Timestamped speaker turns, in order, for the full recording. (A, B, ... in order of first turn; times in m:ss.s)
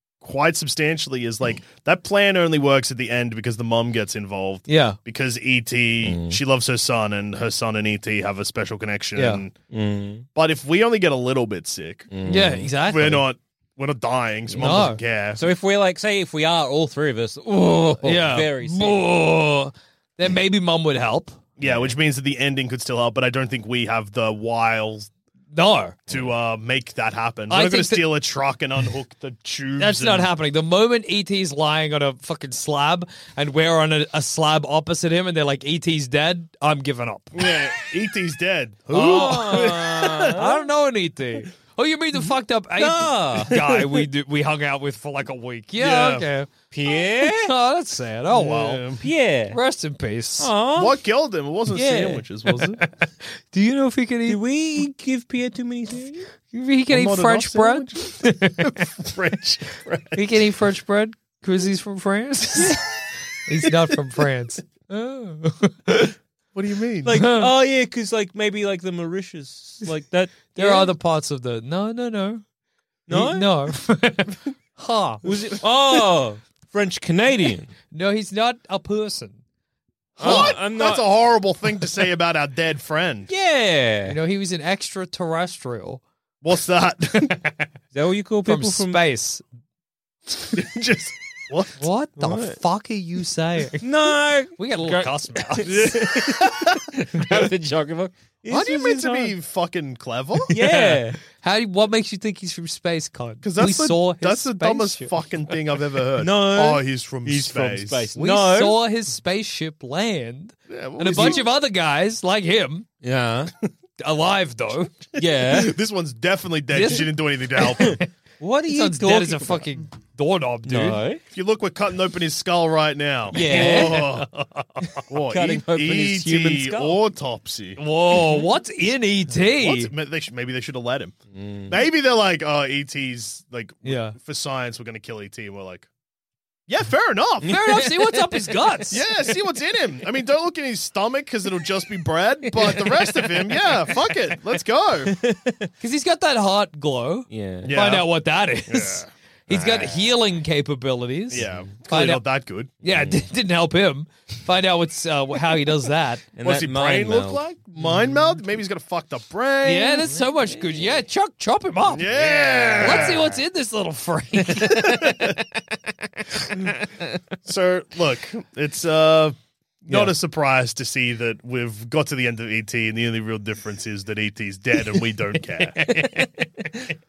0:00.2-0:09.5 A
0:04.7-0:05.0 B
0:06.0-0:06.4 C
0:09.1-0:09.4 B
0:09.7-0:10.2 C
0:10.3-0:12.1 A
0:12.1-0:12.7 C
0:12.2-0:13.2 B
0:12.8-0:15.4 A
0:14.5-0:14.8 C
0:14.6-0:15.0 B
0:15.4-0:19.1 C
0:18.0-0:21.4 B
0:21.6-0:25.1 A
0:21.6-0:21.9 C
0:25.5-0:26.0 B
0:26.1-0:30.3 A
0:27.5-0:28.1 B
0:29.8-0:37.5 B
0:37.4-0:40.3 A
0:38.9-0:48.8 B
0:39.0-0:40.6 C
0:42.8-0:44.1 C
0:45.8-0:46.2 A
0:46.7-0:47.5 C
0:48.3-0:49.0 A
0:49.0-0:49.6 C
0:49.5-0:50.5 B
0:50.4-0:51.0 C
0:50.8-0:52.8 A
0:51.7-0:52.2 C
0:53.5-0:54.4 B
0:54.3-0:56.3 C
0:56.5-0:58.8 B
0:56.9-1:00.2 A
1:00.2-1:02.8 B
1:03.4-1:06.1 B
1:06.5-1:07.1 A
1:07.0-1:10.9 C
1:07.1-1:07.5 B
1:10.5-1:12.4 B
1:13.1-1:13.5 C
1:13.1-1:15.3 B
1:15.2-1:17.7 C
1:17.9-1:19.4 B
1:20.2-1:20.6 B
1:20.2-1:21.2 C
1:20.2-1:23.3 A
1:23.3-1:24.2 C
1:24.0-1:26.0 B
1:26.4-1:27.5 A
1:27.9-1:29.0 C
1:28.4-1:29.4 B
1:30.5-1:31.8 A
1:31.8-1:33.9 B
1:32.2-1:32.6 C
1:33.8-1:39.3 C
1:34.6-1:36.0 B
1:38.5-1:40.5 A
1:40.5-1:41.2 C
1:40.6-1:45.2 B
1:43.4-1:48.1 A
1:46.2-1:48.8 C
1:48.1-1:52.8 B
1:50.7-1:51.4 A
1:51.1-1:51.4 C
1:53.0-1:53.5 C
1:54.0-1:55.0 B
1:55.2-1:55.7 C
1:55.5-1:58.0 A
1:56.7-1:57.2 B
1:56.8-1:57.1 C
1:57.6-1:59.7 C
1:58.7-2:01.0 B
2:00.6-2:01.2 C
2:01.3-2:04.3 A
2:03.3-2:04.2 C
2:03.3-2:04.6 B
2:05.0-2:07.0 C
2:05.1-2:07.8 A
2:07.8-2:09.9 B
2:09.6-2:11.2 A
2:11.3-2:11.8 C
2:11.7-2:15.9 A
2:13.8-2:14.2 B
2:16.7-2:17.5 A
2:17.4-2:18.3 C
2:17.4-2:19.1 B
2:18.9-2:25.1 A
2:22.5-2:24.0 C
2:25.1-2:25.7 C
2:25.8-2:32.2 B
2:27.3-2:27.8 C
2:27.6-2:28.1 A
2:28.7-2:29.1 A
2:29.5-2:30.0 C
2:31.3-2:32.7 A
2:31.3-2:31.7 C
2:32.8-2:36.2 B
2:32.8-2:33.2 C
2:36.3-2:38.3 C
2:36.4-2:40.1 A
2:39.6-2:42.1 B
2:40.2-2:40.9 C
2:41.9-2:43.4 A
2:42.1-2:43.3 C
2:42.8-2:45.3 B
2:44.7-2:45.3 A
2:46.6-2:47.1 C
2:47.4-2:55.8 A
2:49.9-2:50.1 B
2:55.6-2:56.3 B